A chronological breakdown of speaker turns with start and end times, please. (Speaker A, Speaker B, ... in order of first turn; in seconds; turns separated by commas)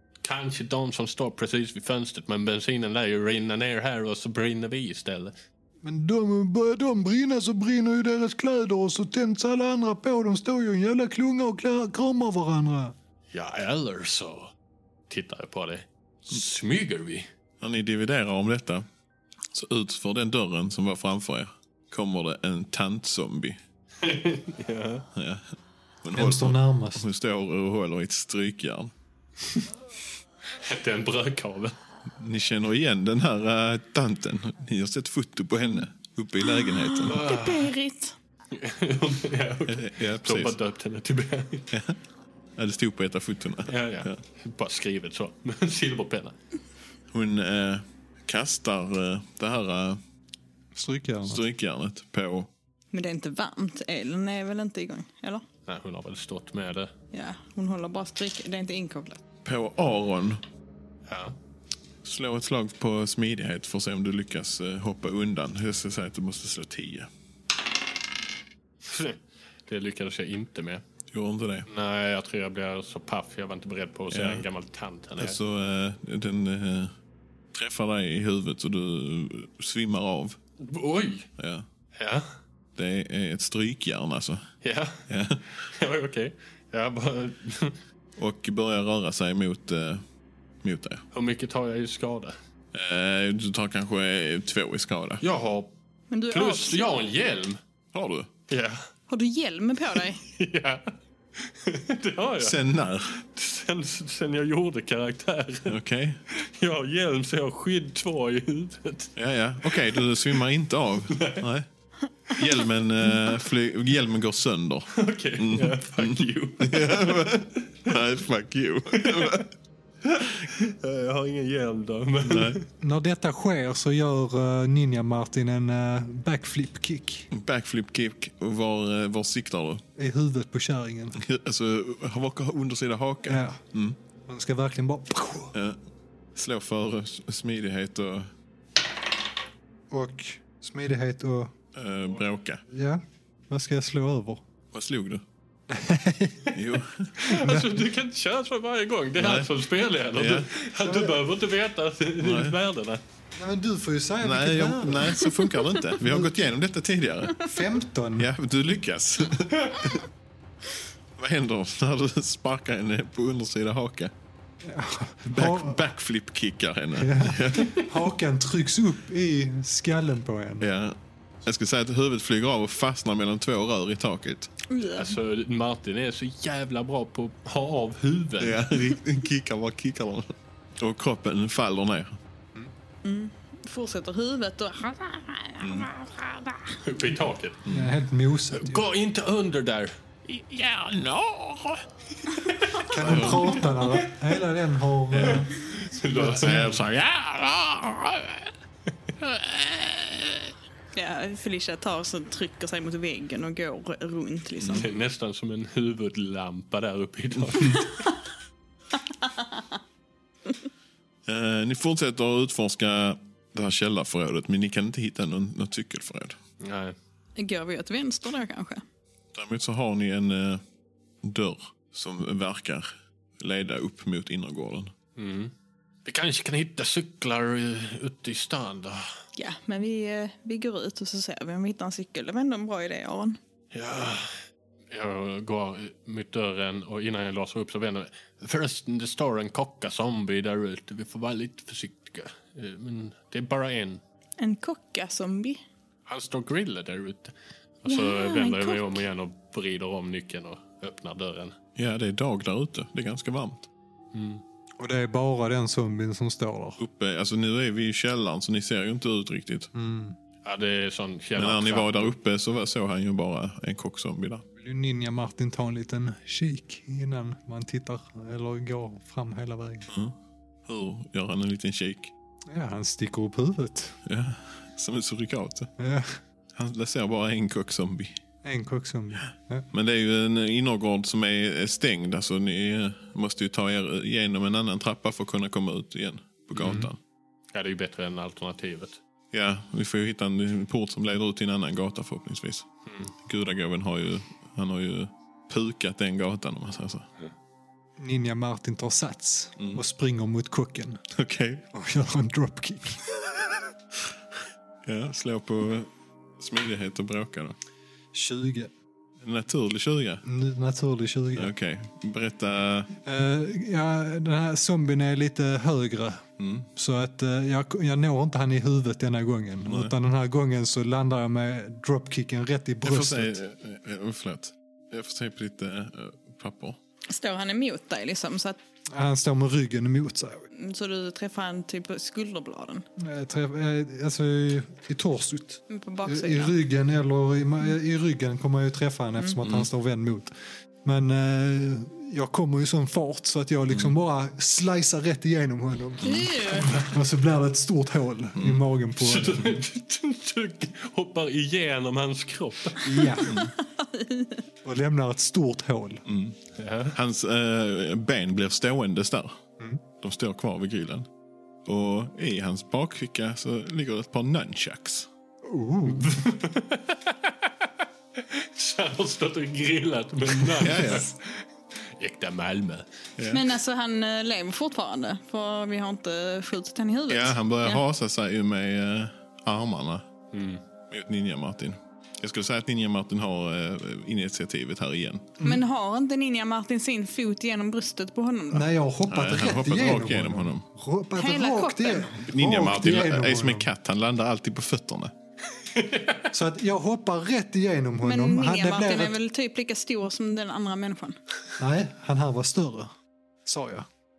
Speaker A: 0.2-5.3, Speaker B: 5.8-12.9, Speaker A: 13.3-14.5, Speaker A: 15.1-17.3, Speaker C: 17.6-18.9, Speaker C: 19.5-23.6, Speaker A: 24.0-25.1, Speaker C: 25.2-25.4, Speaker C: 26.0-28.9, Speaker B: 26.1-27.0, Speaker A: 30.6-31.8, Speaker C: 32.1-37.2, Speaker D: 36.6-38.1, Speaker A: 37.1-37.7, Speaker A: 38.5-41.7, Speaker C: 39.7-40.6, Speaker C: 41.7-42.0, Speaker C: 42.6-44.2, Speaker A: 43.7-46.4, Speaker C: 47.1-50.0, Speaker B: 50.7-51.4, Speaker C: 51.3-52.5, Speaker D: 52.9-55.4, Speaker A: 55.7-56.9, Speaker D: 57.1-59.2, Speaker C: 59.4-60.4, Speaker A: 61.1-61.4, Speaker C: 62.0-67.1, Speaker A: 68.9-70.8, Speaker C: 71.1-71.7, Speaker A: 71.7-75.4, Speaker C: 74.1-74.4, Speaker C: 75.2-76.9, Speaker C: 77.5-80.4, Speaker A: 80.6-81.3, Speaker C: 81.4-81.7, Speaker A: 82.0-82.3, Speaker C: 82.8-84.4, Speaker A: 84.6-85.0, Speaker C: 85.1-85.4, Speaker A: 85.6-87.8, Speaker C: 88.2-90.0, Speaker C: 90.6-91.0, Speaker A: 91.1-92.3, Speaker C: 92.7-95.2, Speaker A: 95.2-95.7, Speaker D: 96.1-97.0, Speaker A: 96.3-97.6, Speaker C: 97.9-98.3, Speaker A: 98.5-98.8, Speaker D: 99.1-100.2, Speaker A: 100.2-105.8, Speaker C: 102.4-103.2, Speaker C: 105.7-106.2, Speaker A: 106.3-109.1, Speaker C: 109.2-111.7, Speaker A: 109.6-110.4, Speaker A: 111.1-111.5, Speaker C: 112.3-119.5, Speaker A: 114.9-117.3, Speaker A: 118.9-119.4, Speaker A: 120.2-122.7, Speaker C: 120.2-120.5, Speaker C: 122.2-122.6, Speaker B: 122.8-127.3, Speaker C: 127.3-129.8, Speaker B: 130.0-131.2, Speaker C: 131.2-134.0, Speaker B: 133.2-133.6, Speaker B: 134.3-135.6, Speaker C: 136.3-138.3, Speaker B: 139.9-141.5, Speaker C: 141.7-142.6, Speaker B: 142.7-144.4, Speaker C: 144.7-145.2, Speaker B: 145.7-146.5, Speaker C: 146.5-147.2, Speaker A: 147.2-153.0, Speaker B: 147.3-147.8, Speaker C: 149.2-149.5, Speaker C: 150.1-150.5, Speaker B: 150.8-151.2, Speaker C: 152.2-152.6, Speaker B: 153.4-155.2, Speaker C: 154.2-157.5, Speaker B: 156.0-156.3, Speaker B: 157.4-158.3, Speaker C: 158.2-160.1, Speaker C: 161.2-164.1, Speaker B: 164.6-165.8, Speaker C: 165.3-167.9, Speaker B: 166.9-170.7, Speaker C: 170.6-174.5, Speaker D: 174.7-175.2, Speaker A: 174.9-178.8, Speaker C: 178.4-182.2, Speaker D: 183.0-186.8, Speaker C: 185.6-185.9, Speaker A: 186.8-187.6, Speaker C: 187.7-187.9, Speaker B: 187.7-188.8, Speaker A: 188.5-189.9, Speaker C: 190.3-191.8, Speaker A: 192.3-194.1, Speaker B: 192.9-195.5, Speaker C: 193.0-193.7, Speaker C: 195.1-195.5, Speaker A: 195.2-198.2, Speaker B: 196.1-196.8, Speaker C: 196.4-197.0, Speaker A: 199.1-200.3, Speaker D: 200.9-204.9, Speaker C: 204.6-204.9, Speaker A: 204.8-207.9, Speaker C: 207.4-207.8, Speaker D: 207.7-208.2, Speaker D: 209.1-209.7, Speaker C: 211.3-216.4, Speaker A: 216.6-217.0, Speaker D: 217.4-218.8, Speaker C: 219.3-220.6, Speaker C: 221.2-222.9, Speaker C: 223.4-224.9, Speaker A: 225.2-225.5, Speaker A: 226.1-229.1, Speaker D: 229.4-233.4, Speaker A: 233.7-234.4, Speaker A: 234.9-244.0, Speaker D: 244.4-245.6, Speaker A: 246.1-251.6, Speaker D: 247.9-249.0, Speaker C: 251.8-253.7, Speaker A: 254.1-254.4, Speaker B: 254.8-256.8, Speaker C: 256.8-259.7, Speaker B: 259.7-260.2, Speaker A: 260.4-262.1, Speaker C: 261.4-264.4, Speaker B: 264.6-269.9, Speaker C: 269.9-272.1, Speaker B: 272.5-274.0, Speaker C: 274.1-275.7, Speaker B: 275.8-276.2, Speaker C: 276.6-278.2, Speaker B: 278.4-279.7, Speaker C: 279.7-287.0, Speaker A: 286.6-286.9, Speaker B: 286.6-286.9, Speaker A: 287.5-289.0, Speaker C: 289.3-292.7, Speaker A: 292.9-293.1, Speaker C: 293.2-297.1, Speaker B: 298.0-301.0, Speaker C: 301.2-301.6, Speaker B: 301.7-303.0, Speaker C: 304.9-307.6, Speaker B: 308.1-308.7, Speaker C: 309.2-310.2, Speaker B: 310.2-311.5, Speaker C: 311.4-312.9, Speaker B: 313.0-323.4, Speaker C: 316.4-316.7, Speaker C: 319.7-319.9, Speaker C: 322.9-326.8, Speaker D: 327.1-328.6, Speaker B: 328.9-330.4, Speaker D: 330.5-332.9, Speaker B: 333.0-340.3, Speaker D: 335.7-336.6, Speaker C: 339.4-339.7, Speaker B: 340.8-349.6, Speaker C: 343.7-343.9, Speaker D: 346.0-346.7, Speaker C: 348.4-348.6, Speaker A: 349.0-353.0, Speaker B: 352.8-353.4, Speaker D: 353.0-354.4, Speaker C: 353.2-353.5, Speaker B: 354.6-356.0, Speaker C: 356.1-356.4, Speaker A: 356.6-357.0, Speaker C: 356.9-359.4, Speaker C: 360.0-361.1, Speaker C: 361.6-365.1, Speaker B: 365.5-366.2, Speaker A: 365.9-372.9, Speaker C: 370.6-371.1, Speaker C: 373.2-373.4, Speaker D: 373.3-377.8, Speaker C: 377.1-380.1, Speaker A: 380.3-380.6, Speaker C: 380.9-385.3, Speaker D: 385.4-388.7, Speaker B: 388.5-393.7, Speaker C: 389.1-390.6, Speaker D: 391.2-392.2, Speaker C: 392.3-395.1, Speaker A: 395.7-396.3, Speaker B: 396.3-399.2, Speaker D: 398.0-401.2, Speaker B: 401.6-402.9, Speaker B: 403.4-403.9